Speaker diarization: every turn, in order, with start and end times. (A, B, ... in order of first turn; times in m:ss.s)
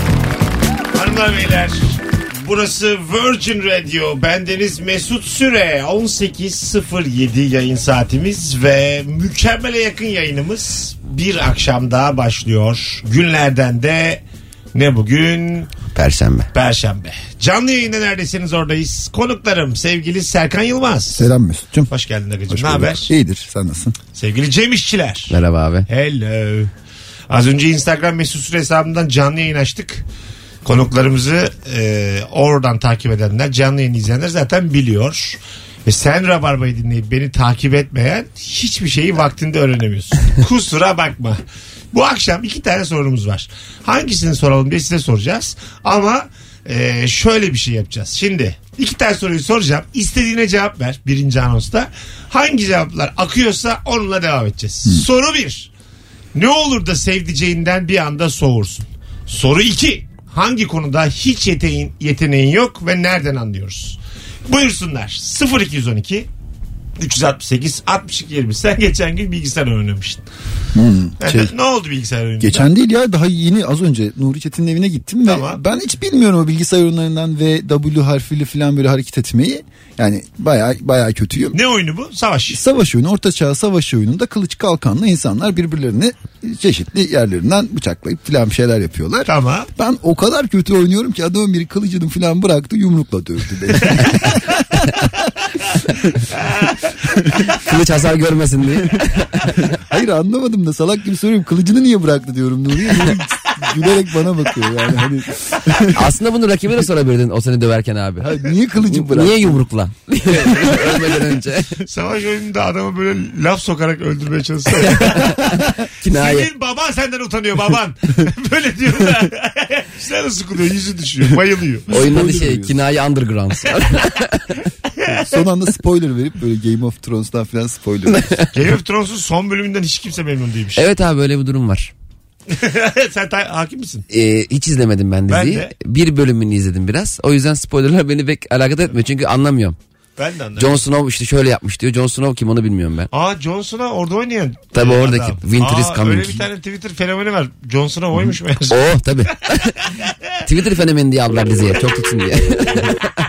0:00.9-0:14.2 A
0:14.7-0:15.7 A
0:15.9-0:16.5 B
0:16.5-0:21.3 A
0:21.2-0:21.9 C
0:21.9-0:23.1 A
0:22.5-0:24.0 C
0:24.1-0:25.3 A
0:25.3-0:25.9 B
0:25.9-0:26.7 A
0:27.3-0:30.0 A
0:30.6-0:41.4 A
0:41.9-0:55.7 A
0:56.3-1:06.3 A
1:07.0-1:10.2 A
1:10.7-1:11.5 C
1:11.2-1:12.7 A
1:12.4-1:21.6 C
1:15.2-1:15.6 A
1:21.5-1:22.6 A
1:22.5-1:34.4 C
1:29.3-1:29.7 A
1:36.5-1:36.7 A
1:37.5-1:39.7 B
1:39.6-1:46.0 C
1:45.9-1:51.8 B
1:48.2-1:49.6 C
1:51.9-1:55.5 A
1:54.8-1:56.5 B
1:56.0-2:01.9 A
2:01.9-2:02.8 C
2:01.9-2:04.5 B
2:05.0-2:05.4 A
2:05.0-2:08.3 C
2:08.1-2:08.5 B
2:08.5-2:10.8 A
2:10.8-2:11.9 B
2:12.5-2:14.0 A
2:14.1-2:19.8 B
2:15.3-2:15.7 A
2:20.2-2:20.8 A
2:20.6-2:23.1 B
2:23.1-2:28.8 A
2:24.7-2:26.4 B
2:28.7-2:29.8 B
2:30.4-2:33.1 B